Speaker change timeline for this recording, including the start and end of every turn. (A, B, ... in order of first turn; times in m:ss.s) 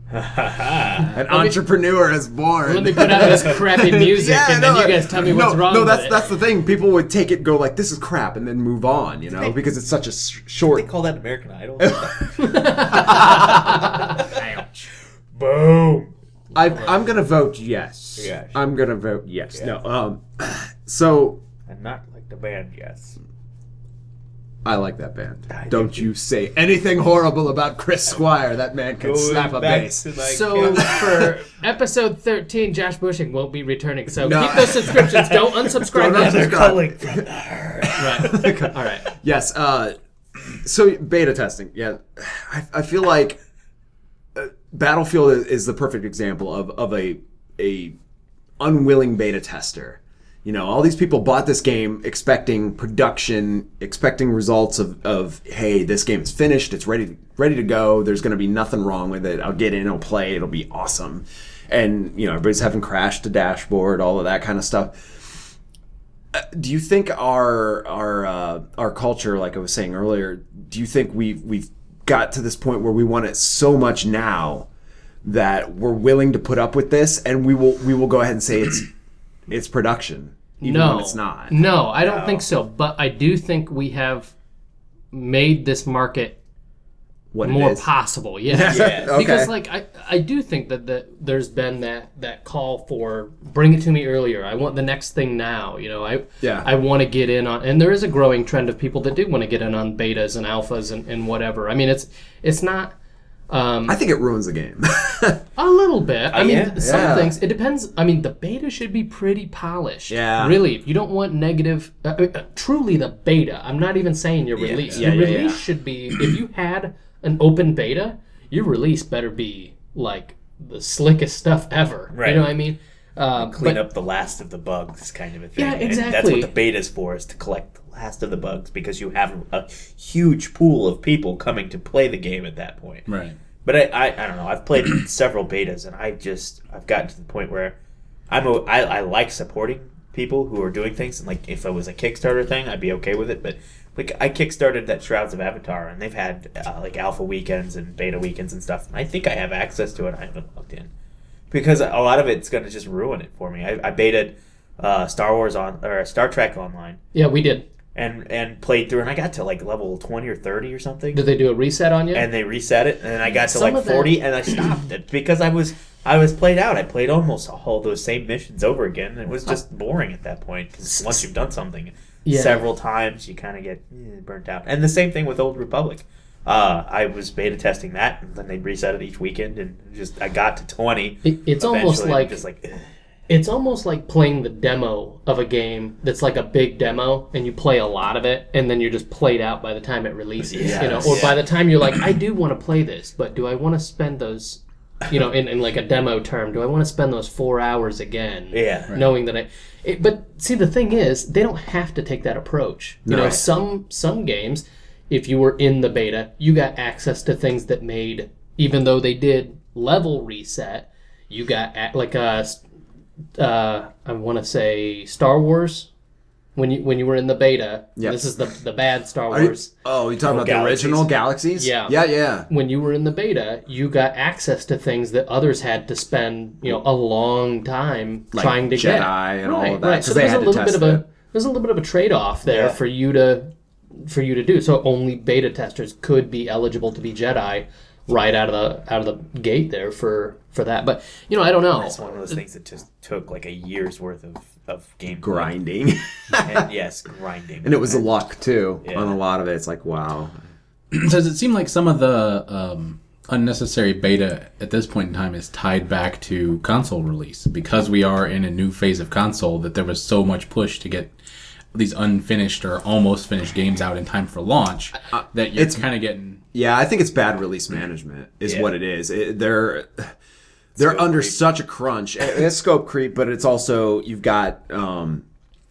0:00.1-0:01.1 A
0:01.1-0:10.9 B
0:01.2-0:01.6 C
0:02.7-0:06.3 C
0:09.3-0:09.6 A
0:10.6-0:14.6 A
0:11.8-0:14.8 B
0:12.4-0:14.2 C
0:15.3-0:16.1 A
0:16.5-0:21.4 B
0:18.2-0:18.6 A
0:21.7-0:23.2 A
0:24.6-0:30.1 B
0:25.5-0:26.1 A
0:29.0-0:31.3 A
0:30.2-0:36.6 C
0:30.6-0:31.1 B
0:34.2-0:37.2 B
0:36.0-0:38.7 A
0:37.8-0:40.0 B
0:38.0-0:39.1 C
0:40.5-0:43.4 B
0:44.4-0:48.0 B
0:48.6-1:05.0 B
1:06.3-1:14.7 B
1:15.2-1:18.9 B
1:19.5-1:21.5 B
1:20.6-1:24.3 C
1:22.0-1:22.4 A
1:25.1-1:26.4 C
1:27.3-1:27.9 B
1:27.4-1:43.0 C
1:28.5-1:29.5 B
1:28.7-1:29.2 A
1:36.4-1:36.7 B
1:43.5-1:44.0 C
1:43.9-1:45.4 B
1:45.6-2:03.8 C
1:46.3-1:47.1 A
1:46.8-1:47.3 B
1:50.1-1:50.6 B
1:54.6-1:54.8 A
1:54.9-1:55.6 B
2:02.1-2:02.6 A
2:03.4-2:13.1 A
2:05.6-2:06.5 C
2:13.1-2:13.4 D
2:13.6-2:17.8 A
2:18.3-2:30.9 A
2:31.5-2:37.0 A
2:37.1-2:37.6 C
2:38.0-2:41.2 A
2:41.1-2:42.3 C
2:42.1-3:02.9 A
2:43.4-2:44.2 C
2:50.9-2:51.2 C
2:52.3-2:52.6 C
3:01.2-3:02.4 C
3:03.3-3:32.6 C
3:10.4-3:11.4 A
3:10.6-3:11.1 B
3:18.5-3:18.9 A
3:23.1-3:23.4 B
3:33.4-3:35.9 C
3:36.6-3:39.7 C
3:39.3-3:42.5 B
3:40.2-3:41.2 A
3:41.6-4:02.4 C
3:48.3-3:51.0 B
3:52.5-3:52.8 A
4:01.7-4:05.5 A
4:05.2-4:06.7 B
4:06.4-4:08.1 A
4:07.6-4:10.4 B
4:08.8-4:09.2 A
4:10.9-4:21.2 D
4:21.7-4:26.4 D
4:25.1-4:25.9 B
4:26.5-4:30.1 B
4:30.8-4:35.2 B
4:30.8-4:31.4 A